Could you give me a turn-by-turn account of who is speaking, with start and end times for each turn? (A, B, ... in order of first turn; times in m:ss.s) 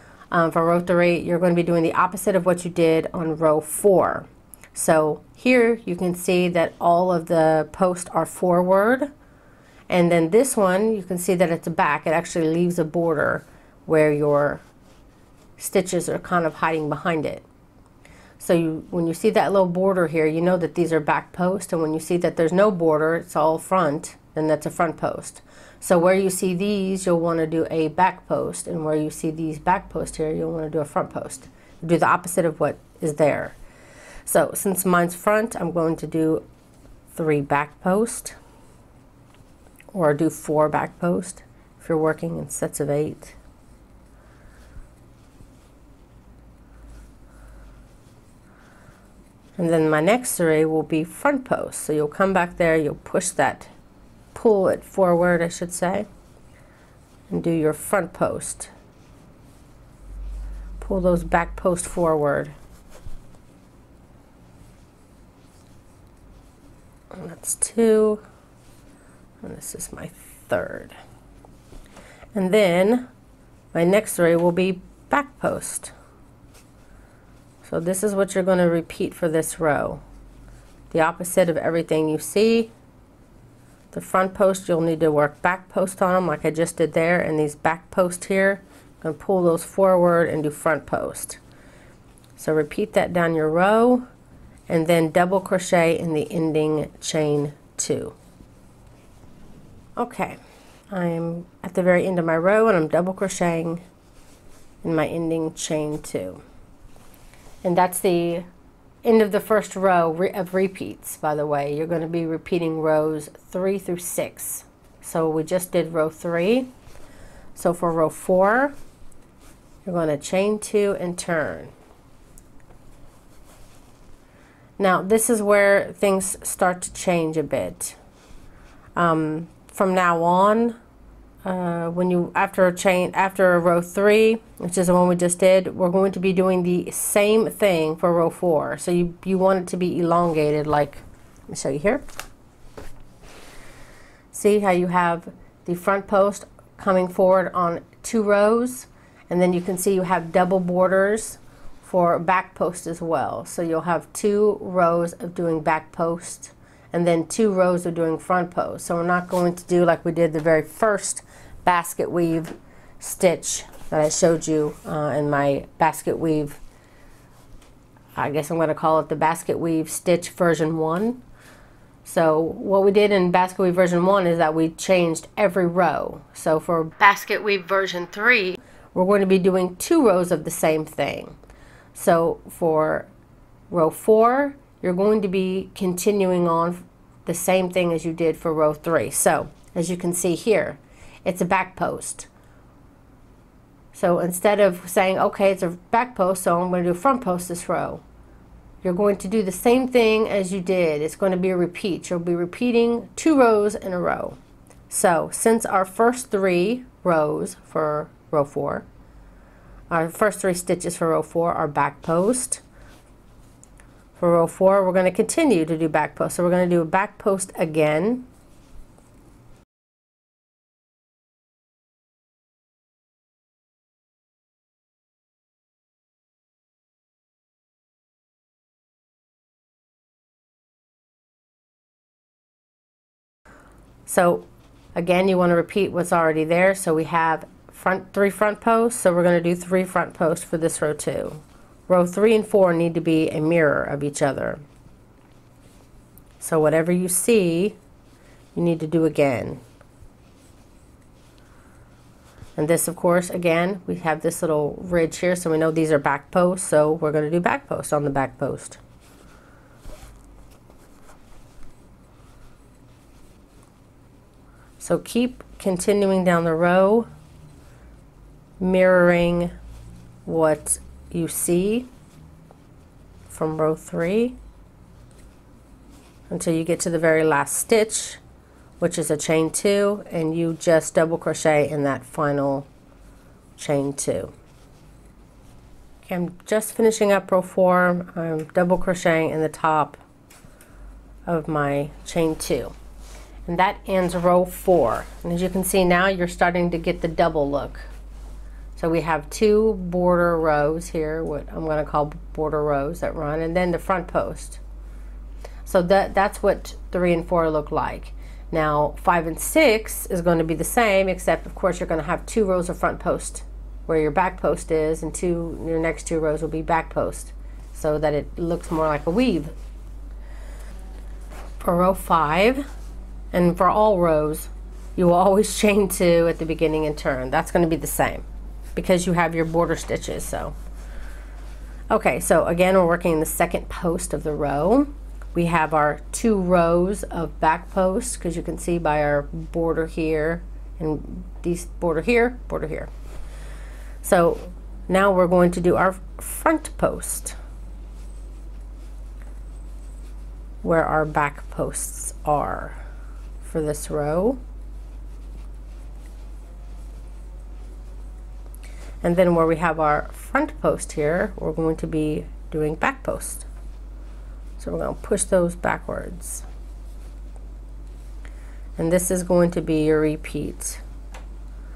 0:00.3-0:09.1 A
0:09.9-0:14.6 A
0:15.6-0:17.4 A
0:18.4-0:33.6 A
0:34.2-0:36.4 A
0:37.1-0:38.4 A
0:39.9-0:43.4 A
0:49.6-0:53.7 A
0:54.3-0:56.1 A
0:57.3-0:58.7 A
1:00.8-1:02.5 A
1:07.1-1:08.2 A
1:09.4-1:11.0 A
1:12.3-1:13.1 A
1:13.7-1:15.9 A
1:17.6-1:20.0 A
1:20.9-1:22.7 A
1:23.9-1:31.4 A
1:32.4-1:34.1 A
1:34.7-1:38.2 A
1:40.0-1:40.4 A
1:40.9-1:43.8 A
1:44.8-1:46.4 A
1:47.6-1:48.5 A
1:49.0-1:56.7 A
1:57.6-1:58.8 A
1:59.8-2:01.7 A
2:04.8-2:08.0 A
2:09.0-2:10.8 A
2:11.4-2:22.0 A
2:24.3-2:46.6 A
2:48.2-2:51.2 A
2:52.0-3:01.4 A
3:01.9-3:03.1 A
3:03.7-3:12.3 A
3:13.9-3:18.0 A
3:18.8-3:24.4 A
3:24.9-3:28.9 A
3:29.9-3:32.6 A
3:34.2-3:38.3 A
3:54.1-4:04.6 A
4:06.4-4:07.8 A
4:08.5-4:09.6 A
4:12.6-4:18.8 A
4:24.8-4:27.1 A
4:28.6-4:29.5 A
4:30.3-4:31.9 A
4:33.3-4:34.4 A
4:36.3-4:38.2 A
4:38.8-4:42.7 A
4:43.6-4:44.3 A
4:46.0-4:50.0 A
4:51.3-4:52.7 A
4:53.5-4:57.9 A
4:58.8-5:04.6 A
5:05.6-5:19.5 A
5:21.6-5:22.7 A
5:23.3-5:30.6 A
5:31.9-5:42.9 A
5:44.0-5:47.4 A
5:50.6-5:52.8 A
5:53.4-5:54.4 A
5:59.0-6:03.5 A
6:04.6-6:06.5 A
6:08.8-6:10.8 A